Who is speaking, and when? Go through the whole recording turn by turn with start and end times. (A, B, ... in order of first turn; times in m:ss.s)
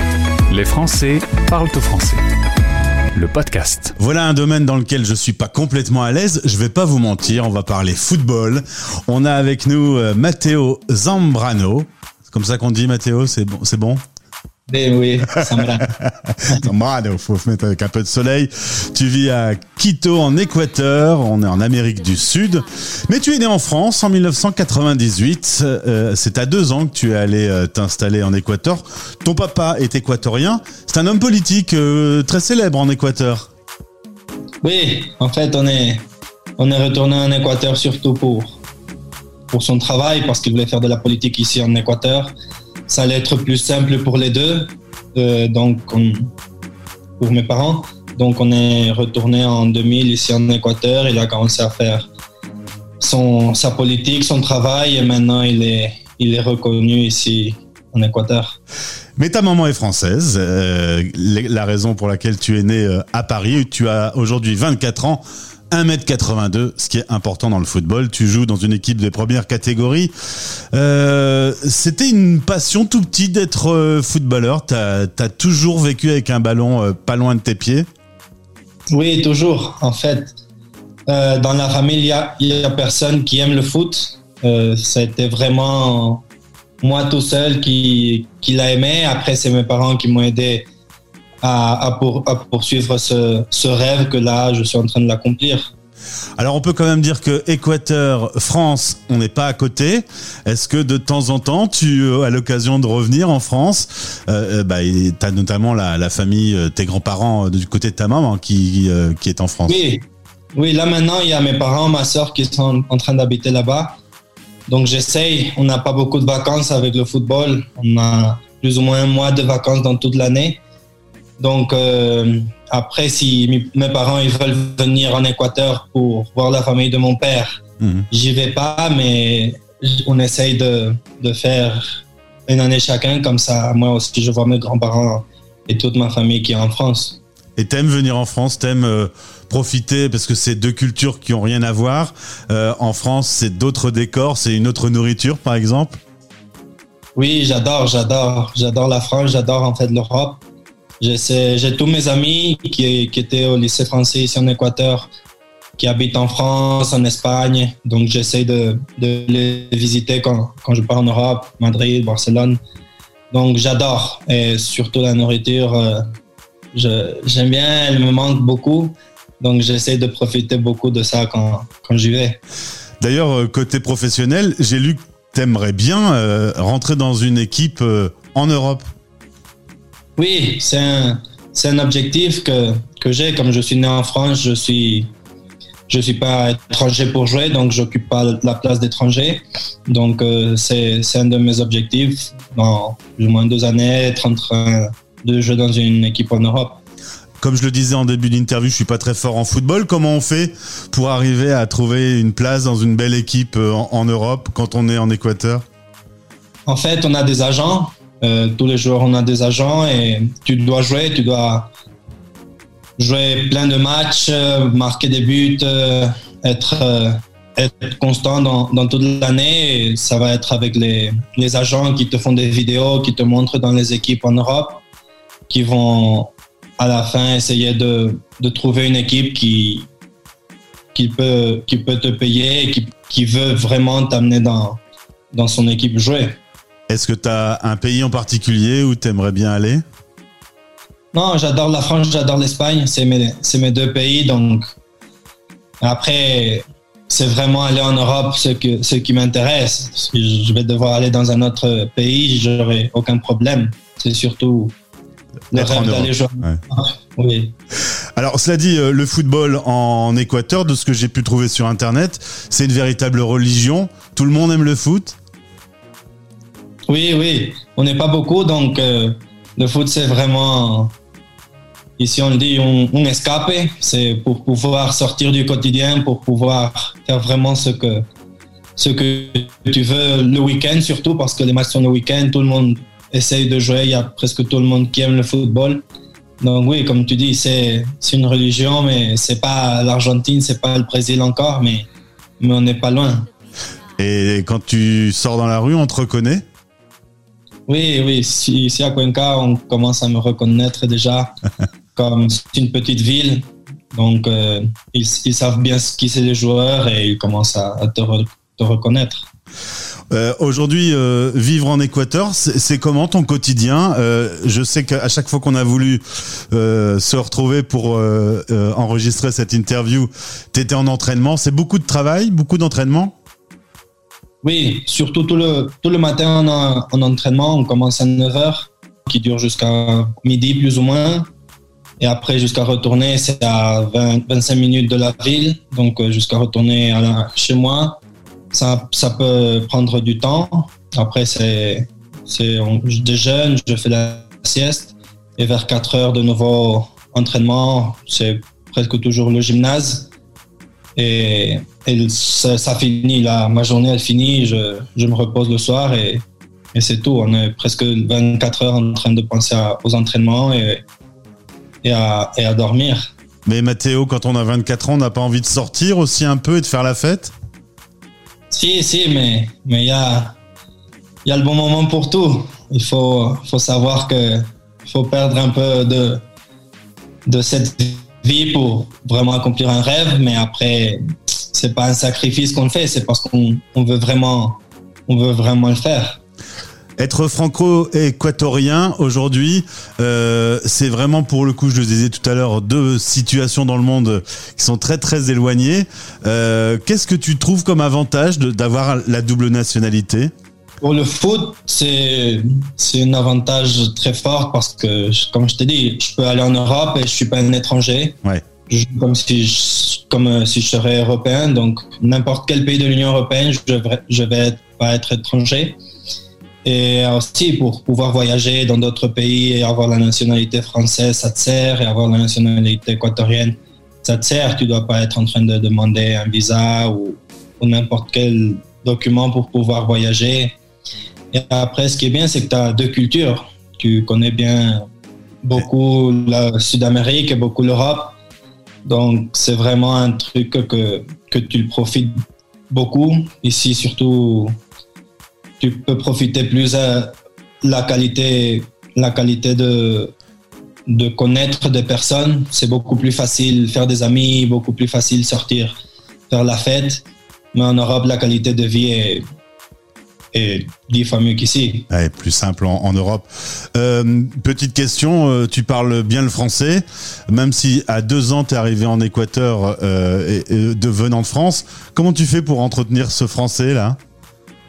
0:00.5-0:02.2 A
0:03.1-0:03.9 A
0:04.0-0:14.0 B
0:14.7-0:15.9 C
0:16.0-0:33.5 B
0:34.6-0:36.0 C
0:36.6-0:38.6 C
0:39.5-0:42.3 C
0:42.9-0:46.3 C
0:47.2-0:52.1 C
0:53.0-0:58.6 C
0:59.2-1:10.1 B
1:10.7-1:17.9 B
1:18.9-1:20.3 C
1:21.1-1:26.2 C
1:26.8-1:30.7 C
1:31.4-1:35.7 C
1:36.4-1:49.8 B
1:49.7-1:54.0 C
1:54.7-2:00.6 C
2:01.4-2:17.2 C
2:07.8-2:08.0 B
2:17.6-2:26.0 B
2:27.1-2:30.4 C
2:31.0-2:35.1 C
2:35.8-2:42.6 C
2:43.3-2:46.0 C
2:46.7-2:52.4 C
2:53.0-2:58.8 B
3:00.2-3:05.1 C
3:05.9-3:16.8 C
3:17.4-3:25.6 B
3:26.6-3:31.7 C
3:33.0-3:44.8 C
3:45.5-3:49.9 C
3:50.9-3:54.8 C
3:55.3-3:56.4 C
3:56.9-3:59.8 B
4:01.1-4:04.6 C
4:05.8-4:14.7 C
4:15.5-4:17.5 C
4:15.5-4:16.6 B
4:18.2-4:25.2 B
4:26.9-4:30.9 C
4:32.0-4:38.0 C
4:38.8-4:45.8 C
4:46.4-4:51.9 C
4:52.4-4:53.3 C
4:54.0-4:56.4 B
4:57.7-5:01.3 C
5:02.0-5:09.3 C
5:10.1-5:23.1 B
5:24.4-5:31.2 C
5:32.0-5:38.0 C
5:38.5-5:50.1 C
5:51.0-6:00.8 C
6:01.8-6:03.1 C
6:03.4-6:07.3 B
6:08.5-6:10.4 C
6:11.2-6:16.2 C
6:17.2-6:26.2 C
6:27.0-6:40.3 B
6:40.8-6:48.2 C
6:48.7-6:55.8 C
6:56.6-7:10.6 C
7:11.3-7:14.8 C
7:15.4-7:18.2 C
7:18.8-7:22.1 C
7:22.7-7:24.5 C
7:25.6-7:30.1 C
7:30.9-7:35.8 C
7:36.3-7:39.2 C
7:40.3-7:41.8 C
7:41.9-7:54.0 B